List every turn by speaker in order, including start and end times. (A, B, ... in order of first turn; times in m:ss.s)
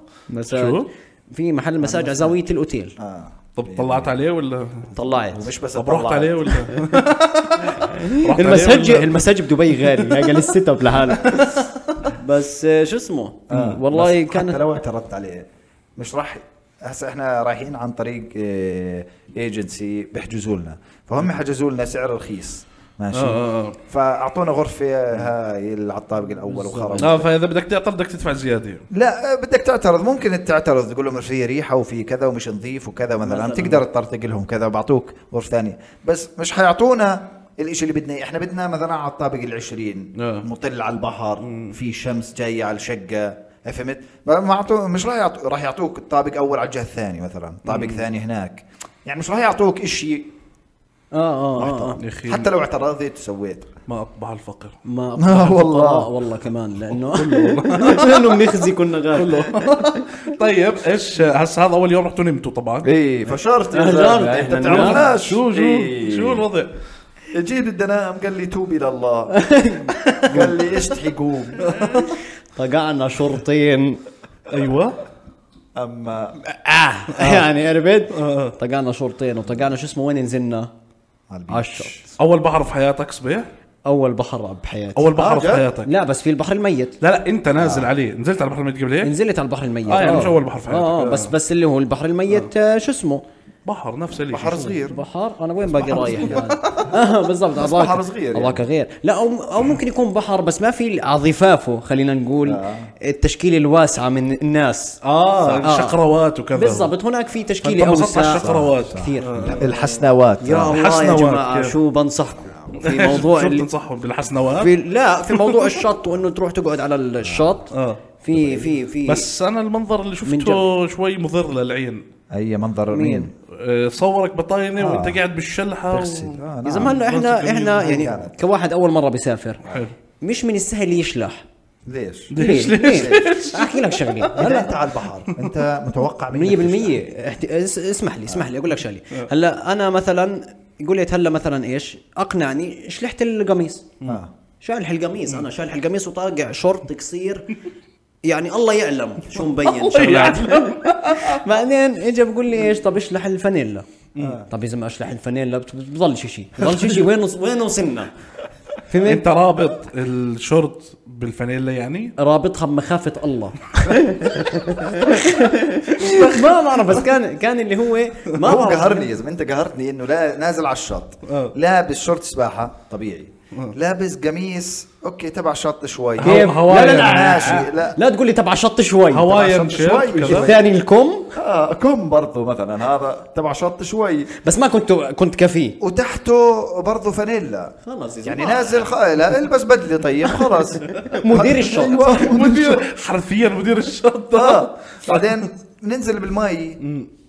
0:00.3-0:02.9 A
0:00.5-0:00.9 B
0:01.8-0:02.4 C
0:03.0-0:04.1 C
0:03.6-0:04.9 B
0:04.9-0:05.5 A
0:05.3-0:06.5 C
0:05.7-0:09.1 B
0:07.7-0:11.5 A
0:11.2-0:11.8 B
0:12.1-0:14.6 A
0:13.5-0:27.3 C
0:23.1-0:23.8 B
0:26.7-0:27.0 A
0:26.9-0:28.8 B
0:28.9-0:50.3 C
0:33.2-0:33.8 A
0:40.2-0:40.5 B
0:41.4-0:41.7 B
0:51.1-0:52.0 A
0:51.6-0:53.7 C
0:52.0-0:52.5 B
0:53.9-0:54.8 B
0:54.8-1:00.0 A
0:55.2-0:56.1 C
0:56.9-0:58.4 B
0:59.1-1:02.9 B
1:02.8-1:06.4 C
1:03.7-1:05.0 A
1:04.6-1:06.7 B
1:07.3-1:09.4 C
1:09.3-1:10.5 A
1:10.2-1:11.7 C
1:11.6-1:12.2 B
1:12.6-1:14.0 A
1:14.5-1:15.0 B
1:15.8-1:16.4 C
1:16.4-1:20.7 A
1:17.1-1:17.4 B
1:18.1-1:18.5 B
1:21.3-1:22.1 C
1:21.5-1:21.9 A
1:22.2-1:23.5 B
1:23.8-1:25.1 A
1:25.0-1:25.9 B
1:25.1-1:25.7 C
1:25.8-1:26.9 A
1:27.0-1:29.1 B
1:27.6-1:27.9 C
1:29.0-1:33.2 A
1:29.9-1:31.3 B
1:33.6-1:34.8 B
1:34.3-1:35.0 C
1:34.8-1:45.0 A
1:35.6-1:36.6 C
1:36.2-1:36.8 B
1:37.5-1:38.6 C
1:42.4-1:42.9 C
1:45.0-1:46.9 B
1:45.6-1:46.0 A
1:46.5-1:49.7 A
1:47.6-1:49.7 B
1:48.4-1:50.8 C
1:50.4-1:53.7 A
1:50.6-1:51.8 B
1:52.8-1:54.7 B
1:54.6-1:59.3 A
1:55.3-1:55.8 B
1:57.2-1:57.6 C
1:57.7-1:58.0 B
1:58.3-1:58.7 C
1:59.0-2:02.0 B
2:00.2-2:00.6 A
2:02.3-2:03.3 C
2:02.9-2:03.3 A
2:03.5-2:08.1 B
2:04.8-2:05.2 C
2:05.9-2:07.0 C
2:06.6-2:09.6 A
2:07.8-2:08.4 C
2:09.7-2:09.9 B
2:10.2-2:11.4 A
2:11.8-2:13.3 C
2:12.3-2:14.3 B
2:12.4-2:14.7 A
2:14.3-2:17.0 C
2:16.3-2:23.9 A
2:24.0-2:24.3 C
2:24.6-2:27.5 A
2:28.2-2:33.8 A
2:29.6-2:31.4 B
2:34.1-2:34.4 B
2:34.2-2:34.4 C
2:34.5-2:38.1 A
2:38.9-2:39.2 A
2:39.0-2:42.1 B
2:42.2-2:49.1 A
2:46.0-2:46.6 B
2:48.4-2:58.0 C
2:51.3-2:51.5 B
2:56.2-2:57.7 B
2:56.2-2:59.3 A
2:59.1-3:00.5 B
2:59.3-3:00.6 C
3:00.3-3:01.3 A
3:01.3-3:04.3 C
3:04.4-3:05.8 A
3:05.8-3:07.7 C
3:07.8-3:08.9 A
3:08.2-3:12.8 C
3:10.9-3:12.3 A
3:12.0-3:15.4 B
3:14.3-3:16.8 C
3:16.8-3:17.1 B